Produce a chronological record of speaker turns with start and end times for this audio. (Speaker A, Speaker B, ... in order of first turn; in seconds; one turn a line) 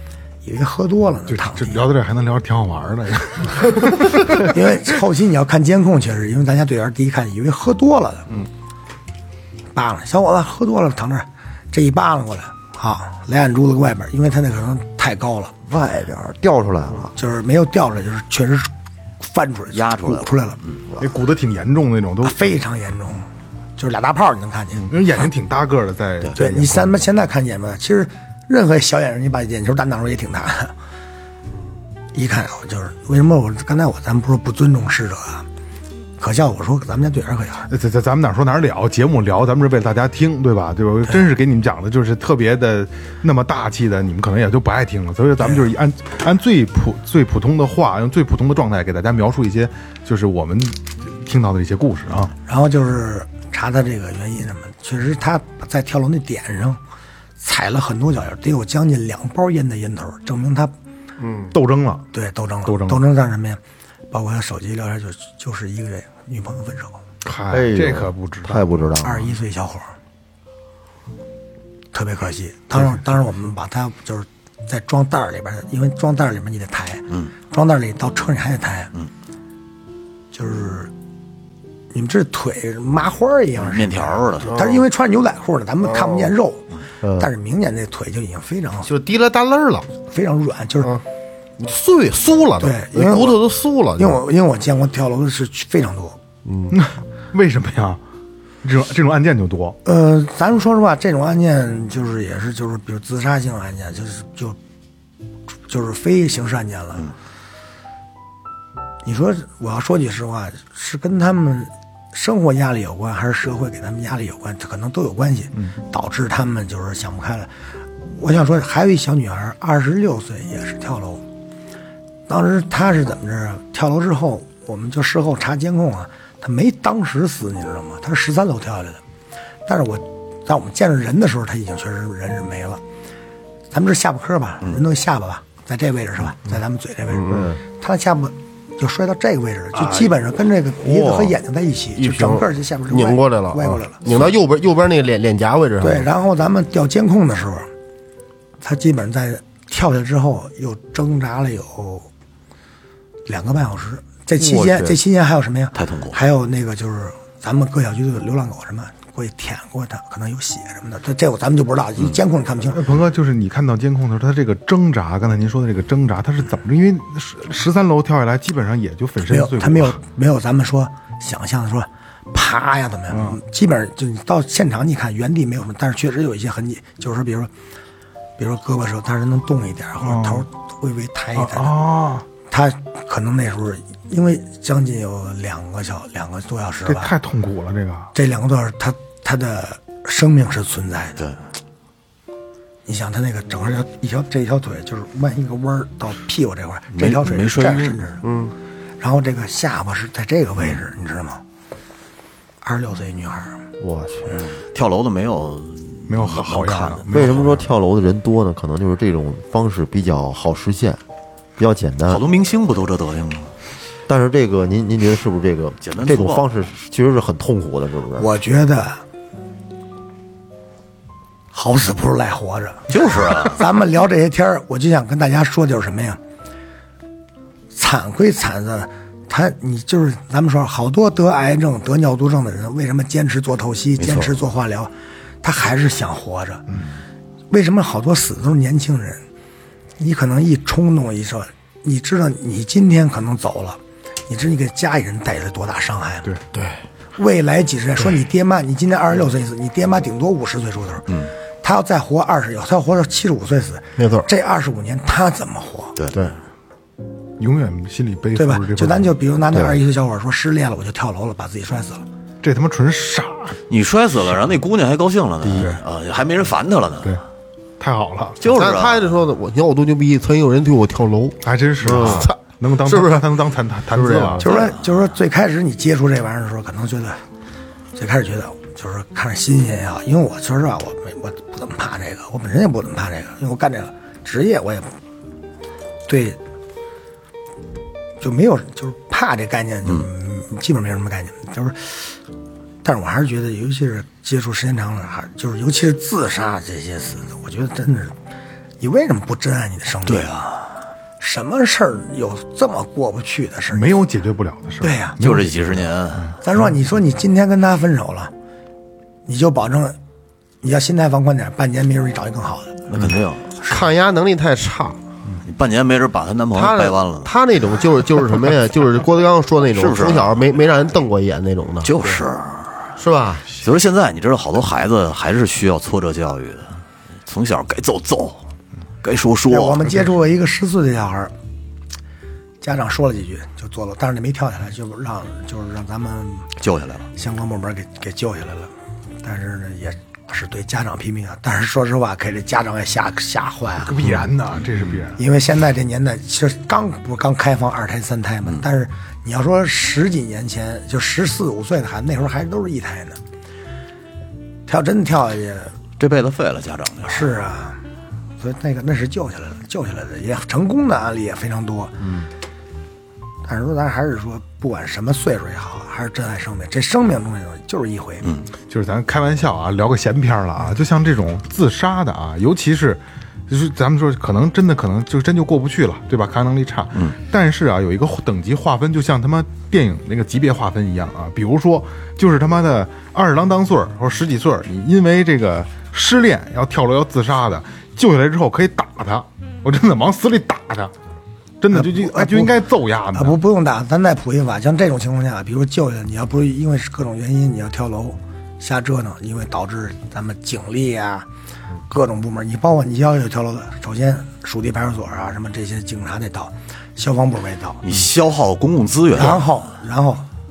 Speaker A: 0.4-1.8
Speaker B: 1.3-4.7
Speaker A: 4.4-8.3
Speaker A: 9.7-15.5
Speaker C: 15.6-17.1
Speaker A: 17.1-20.6
Speaker D: 19.7-20.8
Speaker B: 21.0-22.6
Speaker A: 22.2-24.9
Speaker B: 24.9-27.0
Speaker A: 26.3-30.7
Speaker A: 32.1-35.5
Speaker A: 36.2-37.7
Speaker B: 37.7-52.3
Speaker A: 52.4-56.8
Speaker A: 57.4-60.7
Speaker E: 61.2-61.5
Speaker B: 61.5-62.1
Speaker A: 62.1-67.0
Speaker B: 62.6-63.0
Speaker B: 67.2-68.7
Speaker C: 67.5-69.3
Speaker A: 69.0-69.9
Speaker A: 71.9-78.9
Speaker A: 80.3-80.9
Speaker A: 81.9-88.9
Speaker D: 83.5-84.5
Speaker E: 84.4-84.8
Speaker E: 85.8-86.3
Speaker E: 88.8-89.9
Speaker A: 90.1-91.0
Speaker E: 91.6-94.2
Speaker A: 92.6-93.4
Speaker A: 94.0-96.2
Speaker E: 96.4-96.7
Speaker B: 96.7-98.0
Speaker B: 98.6-99.8
Speaker A: 99.8-104.6
Speaker A: 105.7-107.1
Speaker A: 109.0-121.2
Speaker A: 122.3-129.0
Speaker A: 129.7-132.8
Speaker A: 133.7-144.1
Speaker E: 137.1-137.6
Speaker E: 140.8-141.3
Speaker E: 141.9-146.1
Speaker A: 145.8-147.7
Speaker A: 148.6-152.1
Speaker A: 153.2-162.8
Speaker C: 154.4-155.0
Speaker D: 155.7-156.2
Speaker B: 162.7-170.0
Speaker A: 169.3-177.5
Speaker B: 173.1-173.4
Speaker A: 178.4-181.8
Speaker B: 180.0-180.4
Speaker B: 181.3-182.2
Speaker A: 182.5-187.1
Speaker B: 186.8-188.1
Speaker A: 188.1-191.3
Speaker A: 192.8-198.2
Speaker D: 196.9-198.0
Speaker E: 198.2-198.5
Speaker A: 199.0-201.4
Speaker A: 202.6-203.6
Speaker C: 203.8-204.3
Speaker D: 204.5-207.5
Speaker B: 206.1-207.7
Speaker C: 207.1-211.0
Speaker C: 211.6-212.2
Speaker D: 212.1-213.5
Speaker C: 214.1-218.3
Speaker D: 215.8-216.5
Speaker A: 218.2-219.0
Speaker A: 221.5-226.2
Speaker D: 222.9-223.6
Speaker A: 227.7-236.6
Speaker D: 234.0-234.3
Speaker B: 236.7-237.0
Speaker A: 237.5-239.2
Speaker A: 240.0-246.3
Speaker E: 246.5-246.8
Speaker A: 247.2-255.9
Speaker E: 254.0-254.3
Speaker B: 257.4-259.1
Speaker A: 258.4-262.0
Speaker B: 262.4-263.6
Speaker D: 263.7-267.2
Speaker B: 265.5-265.8
Speaker B: 267.8-268.4
Speaker D: 268.4-269.1
Speaker E: 268.4-273.3
Speaker B: 271.4-274.5
Speaker E: 273.9-274.6
Speaker A: 274.4-277.2
Speaker D: 274.4-274.8
Speaker A: 277.9-284.9
Speaker A: 286.1-286.4
Speaker A: 288.2-292.2
Speaker A: 292.8-298.1
Speaker A: 298.8-300.4
Speaker D: 300.1-300.7
Speaker A: 301.2-303.9
Speaker B: 303.7-306.7
Speaker A: 304.8-305.2
Speaker D: 305.2-306.3
Speaker A: 306.4-308.3
Speaker A: 309.2-310.0
Speaker A: 310.6-313.0
Speaker D: 312.9-313.6
Speaker E: 313.6-315.0
Speaker D: 315.4-317.3
Speaker E: 316.5-322.1
Speaker D: 319.7-320.4
Speaker D: 321.8-322.9
Speaker E: 323.0-323.5
Speaker D: 323.5-328.4
Speaker D: 329.0-329.9
Speaker A: 329.5-331.3
Speaker A: 332.6-336.5
Speaker D: 336.6-337.1
Speaker A: 337.1-344.2
Speaker B: 343.8-345.2
Speaker A: 345.1-353.2
Speaker A: 354.7-355.7
Speaker D: 356.0-357.3
Speaker A: 357.1-357.8
Speaker A: 358.4-361.9
Speaker A: 363.4-368.2
Speaker B: 368.7-390.9
Speaker B: 391.6-393.4
Speaker A: 391.7-392.6
Speaker A: 393.1-401.3
Speaker A: 401.9-407.8
Speaker D: 407.8-409.6
Speaker A: 409.1-410.2